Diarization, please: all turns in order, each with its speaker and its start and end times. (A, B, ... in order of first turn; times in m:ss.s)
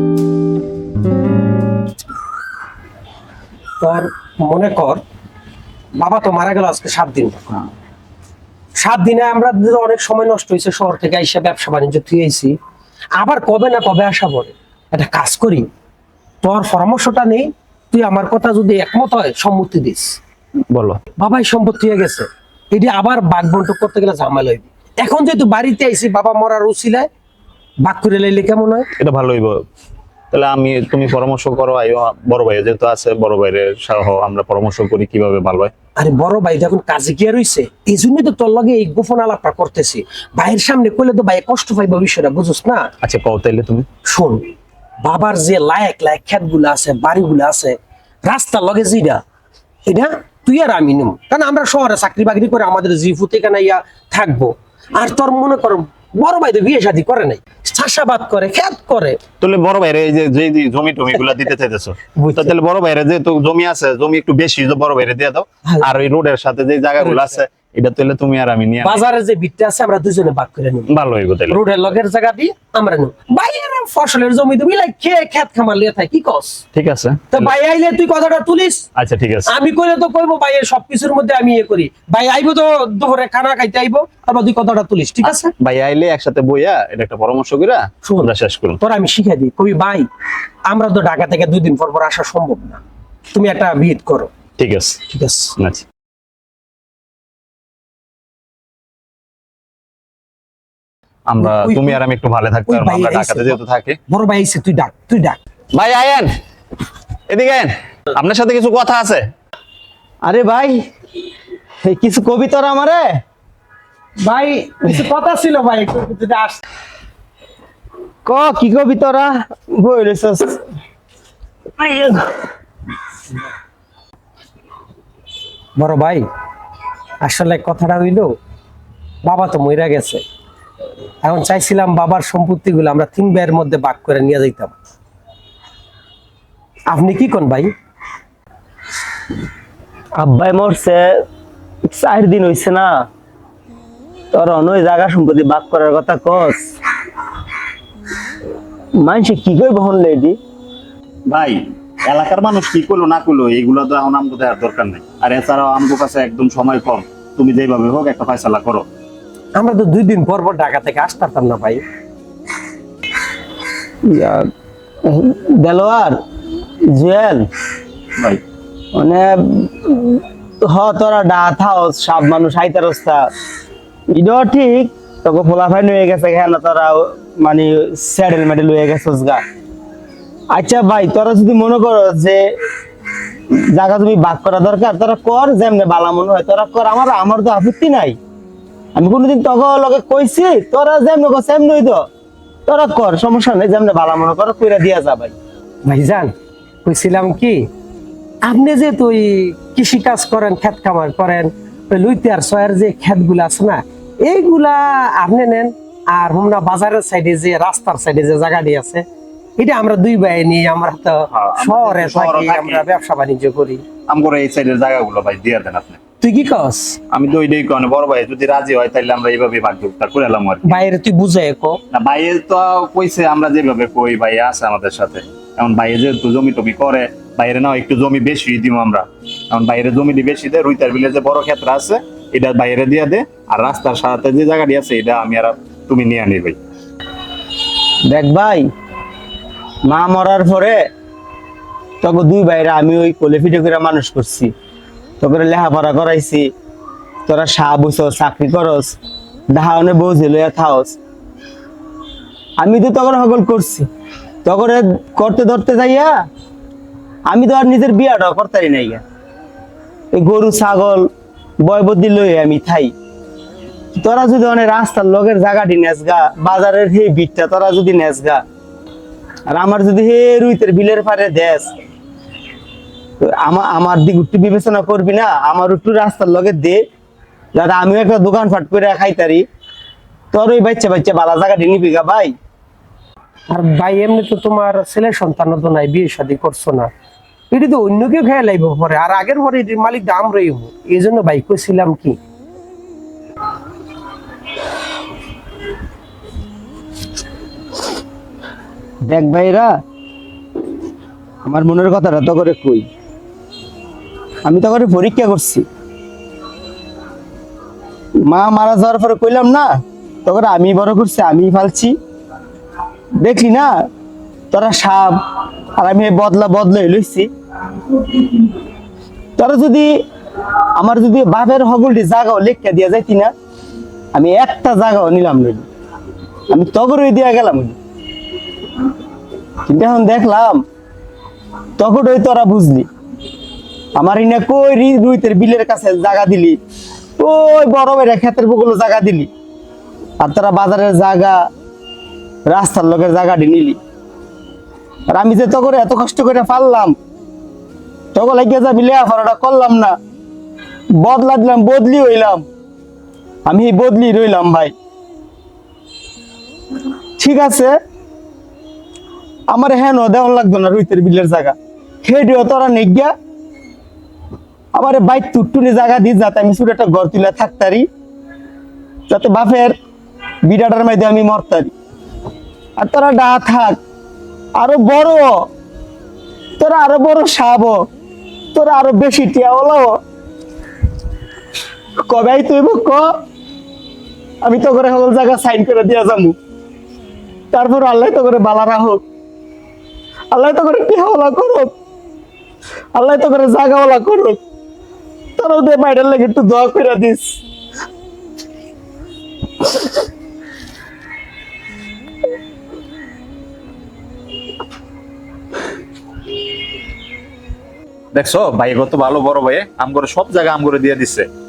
0:03.8-0:05.0 A
0:05.9-0:07.6 A
0:08.8-0:12.6 A
0:13.2-0:15.7 A
0:16.4-0:20.2 A
0:20.7-0:21.0 B
0:21.2-0:27.1 A
0:27.8-0:28.9 A
0:29.0-0:29.6 B
0:30.3-0:35.7 B
0:36.0-0:42.9 A
0:43.0-0:43.9 B
0:44.0-0:44.5 A
0:45.0-0:49.2 A
0:49.8-0:59.2 A
0:59.4-1:09.0 B
1:02.2-1:02.5 A
1:07.0-1:07.4 A
1:08.8-1:10.9 A
1:10.9-1:11.6 B
1:11.5-1:16.6 A
1:16.7-1:17.5 B
1:17.3-1:18.8 A
1:19.0-1:19.5 B
1:19.4-1:25.5 A
1:25.2-1:28.8 B
1:28.0-1:30.1 A
1:30.7-1:32.8 A
1:33.3-1:34.3 A
1:34.6-1:35.0 B
1:35.1-1:35.5 A
1:35.6-1:35.8 B
1:41.3-1:44.0 B
1:41.4-1:42.0 A
1:42.6-1:45.4 A
1:45.7-1:46.3 B
1:47.3-1:49.3 B
1:50.2-1:50.8 C
1:51.8-1:53.1 C
1:54.2-1:56.6 A
1:58.2-2:00.6 C
2:01.8-2:02.5 C
2:05.8-2:06.2 A
2:07.2-2:08.3 A
2:09.2-2:10.2 A
2:11.2-2:14.7 A
2:16.9-2:17.7 A
2:20.2-2:21.2 C
2:21.9-2:23.0 C
2:24.3-2:26.6 C
2:29.0-2:30.4 C
2:31.3-2:38.8 B
2:39.5-2:41.8 A
2:44.0-2:44.5 C
2:45.0-2:46.2 C
2:46.9-2:47.4 C
2:48.9-2:53.2 C
2:54.1-2:59.4 C
3:00.5-3:02.4 C
3:03.7-3:08.2 C
3:08.9-3:12.0 C
3:12.6-3:15.3 C
3:15.8-3:16.3 A
3:16.8-3:17.7 A
3:18.4-3:29.0 A
3:29.6-3:33.8 A
3:31.3-3:32.8 B
3:34.1-3:36.0 B
3:36.2-3:37.0 A
3:37.1-3:40.8 B
3:40.6-3:41.8 A
3:41.9-3:56.6 B
3:58.1-3:58.6 C
3:59.8-4:00.8 C
4:02.0-4:04.5 C
4:05.2-4:06.5 C
4:07.3-4:09.0 C
4:09.5-4:11.0 C
4:12.6-4:13.9 C
4:14.4-4:16.1 C
4:17.3-4:19.0 C
4:20.1-4:21.1 C
4:21.6-4:22.9 C
4:24.0-4:28.4 C
4:29.5-4:31.7 C
4:33.2-4:36.8 C
4:37.5-4:39.4 C
4:40.3-4:42.3 C
4:43.5-4:46.9 A
4:47.5-4:52.2 A
4:59.0-4:59.7 C
5:01.4-5:02.9 C
5:04.4-5:05.6 C
5:08.2-5:12.0 C
5:13.2-5:13.7 C
5:14.5-5:15.2 C
5:15.8-5:17.3 C
5:17.9-5:18.5 C
5:19.4-5:19.9 C
5:20.8-5:23.3 C
5:24.1-5:25.6 C
5:26.5-5:27.8 C
5:29.6-5:30.6 C
5:31.8-5:32.9 C
5:34.0-5:36.6 C
5:37.2-5:39.3 C
5:40.2-5:41.4 C
5:42.5-5:43.8 C
5:45.1-5:47.0 C
5:48.1-5:49.9 C
5:51.0-5:52.4 C
5:53.4-5:54.7 C
5:57.2-5:57.8 C
5:59.5-6:03.1 C
6:04.7-6:07.8 C
6:09.1-6:09.7 C
6:10.5-6:11.7 C
6:12.8-6:13.8 C
6:14.6-6:15.3 C
6:16.6-6:17.8 C
6:18.5-6:19.9 C
6:22.0-6:23.1 C
6:24.4-6:26.4 C
6:27.5-6:29.0 C
6:30.3-6:31.7 C
6:33.0-6:34.4 C
6:35.4-6:37.4 C
6:48.1-6:51.3 B